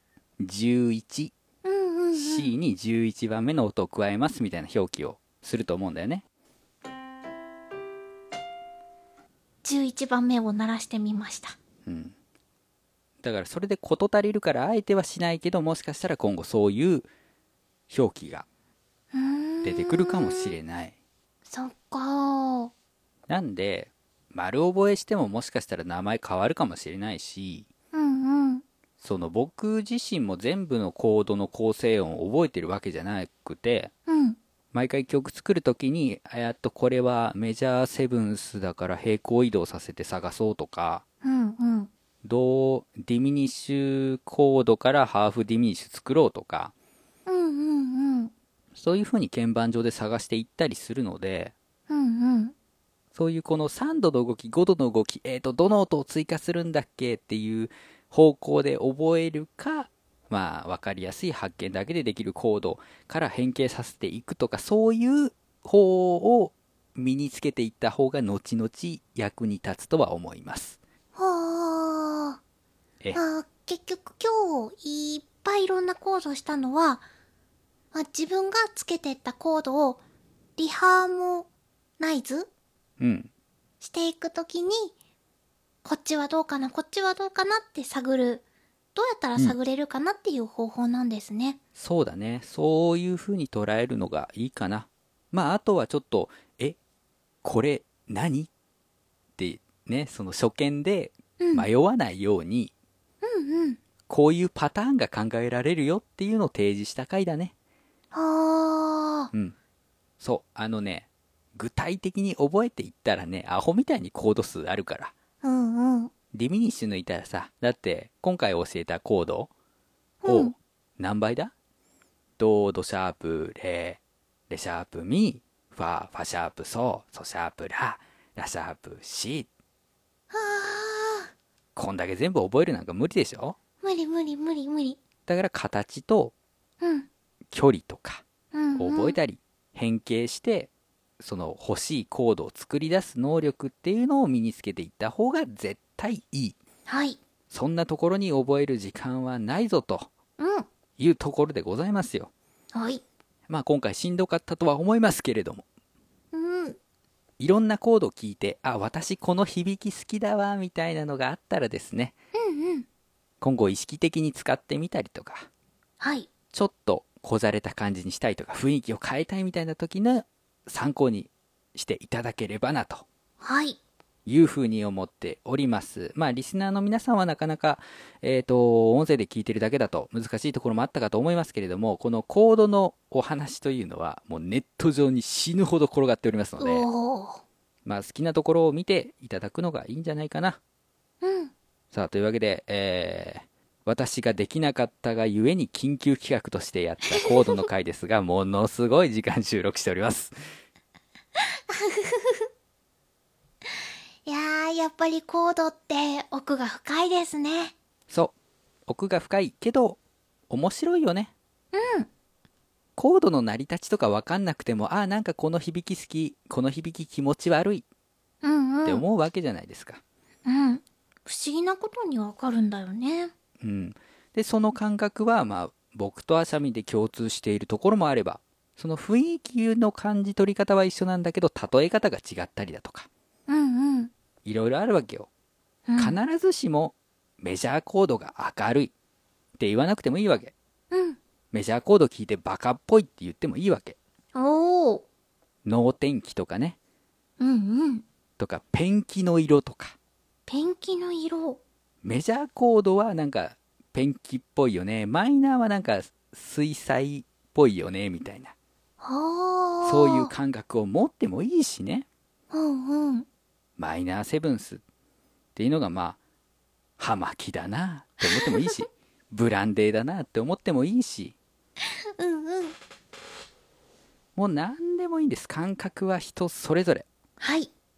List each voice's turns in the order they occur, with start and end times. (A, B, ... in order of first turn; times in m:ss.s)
0:00.4-0:01.3 A
0:01.6-0:02.5 B
0:02.1-0:06.2 A
0:09.6-0:11.6 B
0:11.8-0:12.1 A
0:13.2-0:17.1 A
0:17.9-0:18.4 A
0:19.1-0:20.6 B
0:19.6-0:20.9 A
0:21.4-0:22.7 B
0:23.3-0:27.7 A
0:27.9-0:28.6 B
0:29.0-0:33.9 A
0:34.1-0:34.4 B
0:34.7-0:41.0 A
0:41.2-0:41.9 B
0:42.2-0:46.7 A
0:47.2-0:48.3 B
0:48.8-0:51.5 A
0:51.9-0:52.5 B
0:53.1-1:10.8 A
1:11.1-1:12.4 B
1:13.1-1:17.0 B
1:17.9-1:20.0 B
1:20.6-1:21.5 B
1:22.0-1:22.5 B
1:23.0-1:23.3 A
1:23.8-1:24.9 B
1:25.8-1:28.4 B
1:28.9-1:31.6 B
1:31.8-1:36.8 A
1:37.4-1:38.5 A
1:39.4-1:42.7 A
1:41.4-1:41.6 B
1:43.2-1:43.8 B
1:44.1-1:47.5 A
1:48.1-1:49.3 B
1:50.2-1:55.1 A
1:55.4-1:56.1 B
1:56.3-1:59.5 A
2:00.2-2:00.5 B
2:00.2-2:01.5 A
2:02.4-2:09.5 A
2:10.3-2:11.3 B
2:11.8-2:13.6 A
2:13.8-2:15.0 B
2:15.3-2:16.3 A
2:16.8-2:17.1 B
2:17.5-2:18.2 A
2:18.5-2:19.2 B
2:18.8-2:26.6 A
2:26.9-2:27.2 B
2:27.5-2:30.1 A
2:30.4-2:30.6 B
2:31.0-2:32.3 A
2:32.7-2:33.0 B
2:33.5-2:35.6 A
2:36.3-2:36.8 B
2:37.4-2:42.1 A
2:42.3-2:42.8 B
2:43.4-2:45.5 A
2:46.0-2:46.3 B
2:46.5-2:53.0 A
2:53.4-2:53.8 B
2:54.2-3:06.8 A
3:06.6-3:07.4 B
3:07.8-3:10.6 A
3:11.2-3:11.5 B
3:11.9-3:20.3 A
3:21.4-3:22.5 B
3:24.2-3:27.7 B
3:28.1-3:28.3 A
3:28.9-3:31.3 A
3:31.7-3:32.1 B
3:33.0-3:37.8 A
3:38.4-3:39.0 B
3:38.8-3:40.0 A
3:40.4-3:43.3 B
3:43.6-3:53.1 A
3:53.5-3:54.1 B
3:54.4-3:55.3 A
3:55.9-3:56.2 B
3:56.0-3:58.9 A
3:59.6-4:00.5 A
4:00.9-4:01.2 B
4:01.5-4:04.0 A
4:04.3-4:05.0 B
4:05.6-4:06.8 A
4:07.4-4:08.0 B
4:08.4-4:10.0 A
4:10.5-4:11.6 B
4:12.0-4:18.5 A
4:19.0-4:20.3 B
4:19.8-4:22.0 A
4:22.5-4:23.2 B
4:23.8-4:24.8 A
4:25.6-4:26.2 A
4:27.0-4:31.3 A
4:28.2-4:28.7 B
4:32.0-4:32.8 B
4:34.4-4:37.0 A
4:37.4-4:37.7 B